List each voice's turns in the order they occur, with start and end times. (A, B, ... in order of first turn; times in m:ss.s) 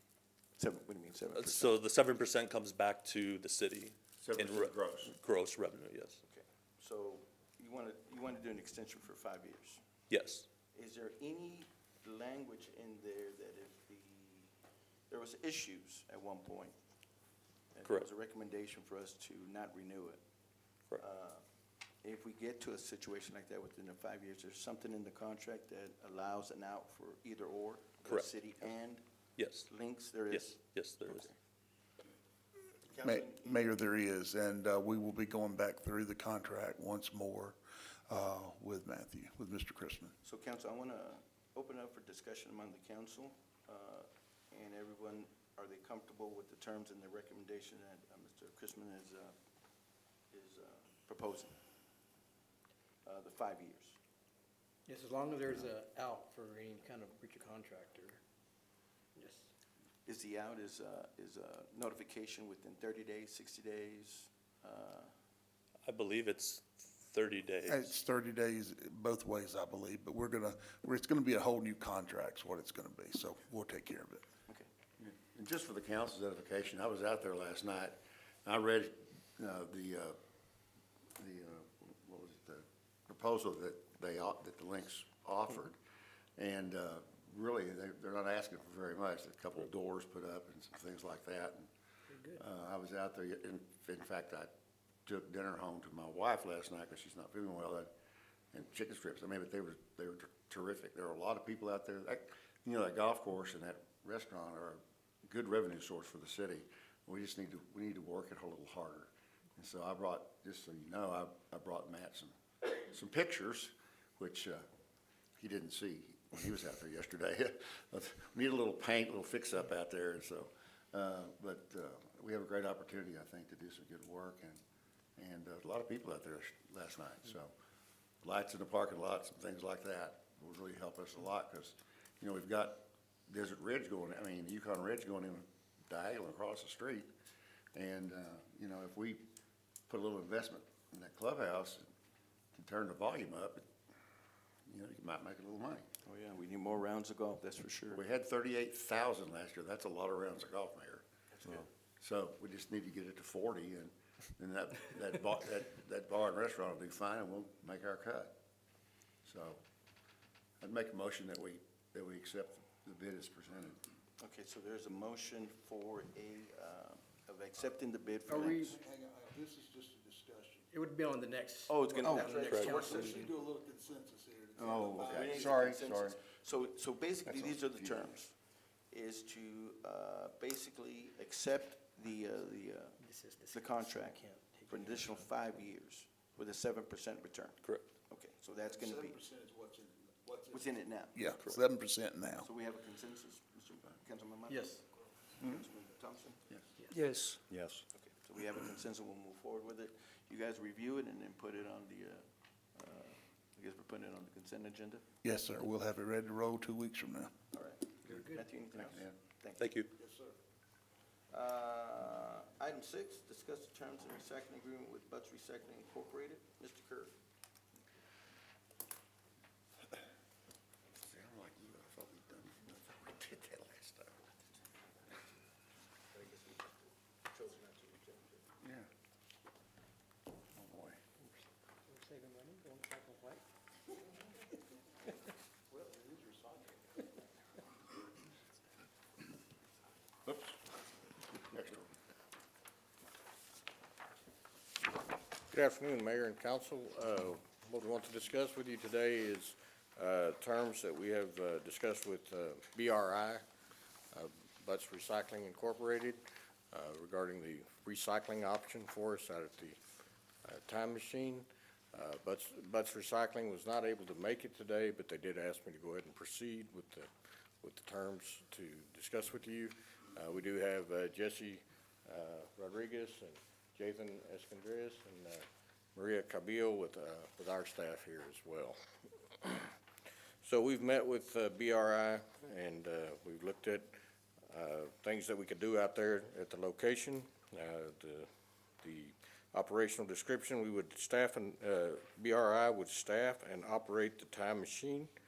0:00.6-0:01.7 A
0:01.3-0:06.2 B
0:04.2-0:05.1 C
0:06.3-0:09.8 A
0:10.1-0:10.4 B
0:10.7-0:14.5 A
0:15.1-0:16.7 A
0:17.7-0:20.2 A
0:21.0-0:21.4 A
0:22.0-0:29.0 A
0:28.0-0:28.6 B
0:29.4-0:29.7 B
0:29.6-0:31.4 A
0:30.3-0:31.3 B
0:33.0-0:33.6 A
0:33.0-0:37.6 D
0:38.1-0:40.1 D
0:40.2-0:49.3 A
0:50.3-0:51.5 A
0:53.0-0:54.0 A
0:54.9-0:58.2 E
0:59.2-0:59.5 E
1:00.0-1:05.1 A
1:05.8-1:07.9 B
1:07.6-1:14.2 D
1:15.0-1:20.2 C
1:21.2-1:25.8 C
1:26.4-1:31.7 C
1:32.1-1:32.4 E
1:32.3-1:34.5 C
1:35.0-1:37.9 C
1:38.5-1:54.6 C
1:55.4-2:04.6 C
2:05.2-2:07.5 C
2:08.2-2:17.1 C
2:17.7-2:19.2 C
2:19.9-2:21.8 C
2:22.5-2:23.7 C
2:24.7-2:25.9 C
2:26.0-2:28.0 A
2:27.9-2:31.0 C
2:31.3-2:31.7 A
2:32.0-2:38.3 C
2:39.2-2:39.6 C
2:40.6-2:43.8 C
2:44.2-2:48.8 A
2:48.3-2:48.8 E
2:48.6-2:50.6 D
2:49.0-2:50.5 F
2:50.7-2:53.3 E
2:51.7-2:53.3 A
2:52.6-2:55.4 D
2:53.4-2:54.8 F
2:54.6-2:56.2 C
2:54.9-2:58.3 A
2:57.2-2:58.1 C
2:58.9-3:03.0 A
3:03.0-3:05.3 E
3:03.5-3:09.2 A
3:08.6-3:10.7 F
3:10.5-3:11.2 A
3:11.1-3:12.5 D
3:12.4-3:16.4 A
3:14.5-3:14.8 E
3:17.5-3:17.8 G
3:17.9-3:25.0 A
3:25.2-3:27.3 D
3:27.5-3:29.7 A
3:28.1-3:28.4 E
3:28.8-3:29.1 C
3:29.6-3:29.9 B
3:31.3-3:37.1 A
3:41.0-3:44.2 C
3:46.1-3:46.8 A
3:47.3-3:48.4 A
3:48.6-3:48.9 C
3:50.5-3:51.0 C
3:51.9-3:53.4 E
3:55.7-3:56.9 F
4:00.3-4:00.5 C
4:01.5-4:01.9 C
4:05.5-4:13.4 G
4:14.1-4:19.8 G
4:20.4-4:39.8 G
4:40.4-4:44.0 G
4:44.5-4:48.3 G
4:48.8-4:55.1 G